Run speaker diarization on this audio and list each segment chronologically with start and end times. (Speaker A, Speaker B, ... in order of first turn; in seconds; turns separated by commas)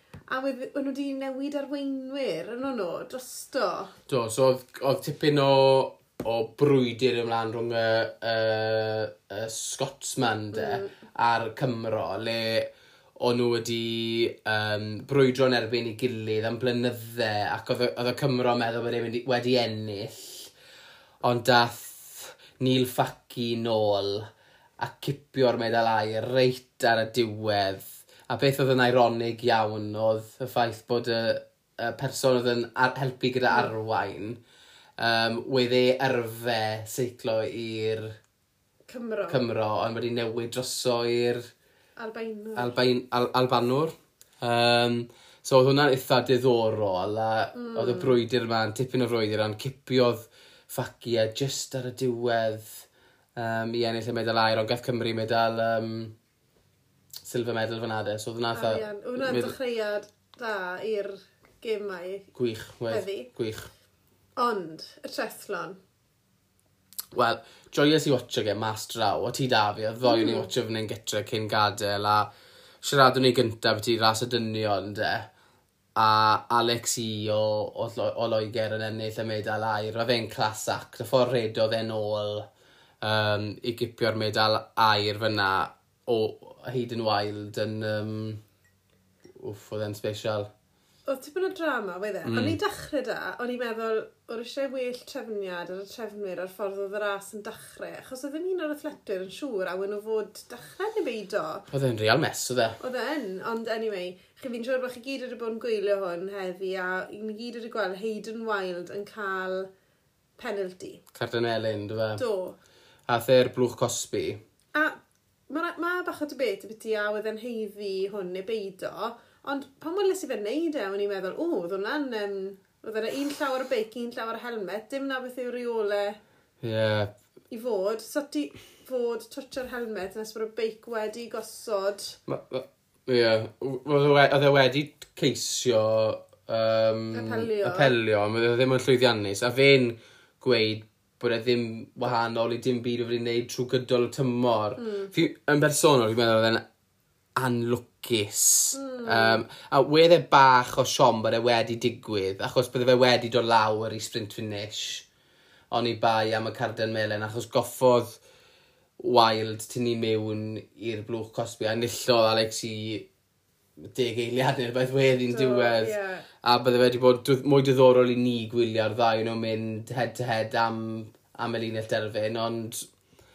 Speaker A: 0.3-4.0, Speaker B: 4.1-20.5, Speaker A: 10.5-10.9, Speaker B: 21.2-24.2, Speaker B: 24.8-34.4, Speaker B: 35.0-38.1, Speaker A: 38.9-39.5, Speaker B: 39.3-41.4, Speaker A: 42.0-42.8, Speaker B: 42.5-56.1, Speaker A: 47.5-48.2, Speaker B: 57.2-59.5, Speaker A: 58.5-62.3, Speaker B: 62.3-63.7, Speaker A: 62.9-63.3, Speaker A: 64.4-65.8, Speaker B: 67.1-72.3, Speaker A: 70.0-70.5, Speaker B: 72.8-75.3, Speaker B: 76.0-82.5, Speaker B: 83.0-88.4, Speaker B: 89.3-90.5, Speaker A: 91.1-101.7, Speaker B: 92.2-92.6, Speaker B: 101.7-102.8, Speaker A: 102.8-109.7, Speaker A: 110.4-111.0, Speaker B: 111.1-112.2, Speaker A: 112.2-112.6, Speaker B: 113.1-114.4, Speaker A: 115.5-126.2, Speaker B: 126.6-127.1, Speaker A: 127.5-132.2, Speaker B: 132.3-146.6, Speaker A: 137.1-137.9, Speaker A: 144.8-145.1, Speaker B: 147.3-155.1, Speaker A: 148.7-149.4, Speaker B: 155.7-158.2, Speaker B: 159.0-163.1, Speaker B: 163.8-172.9, Speaker A: 165.3-166.3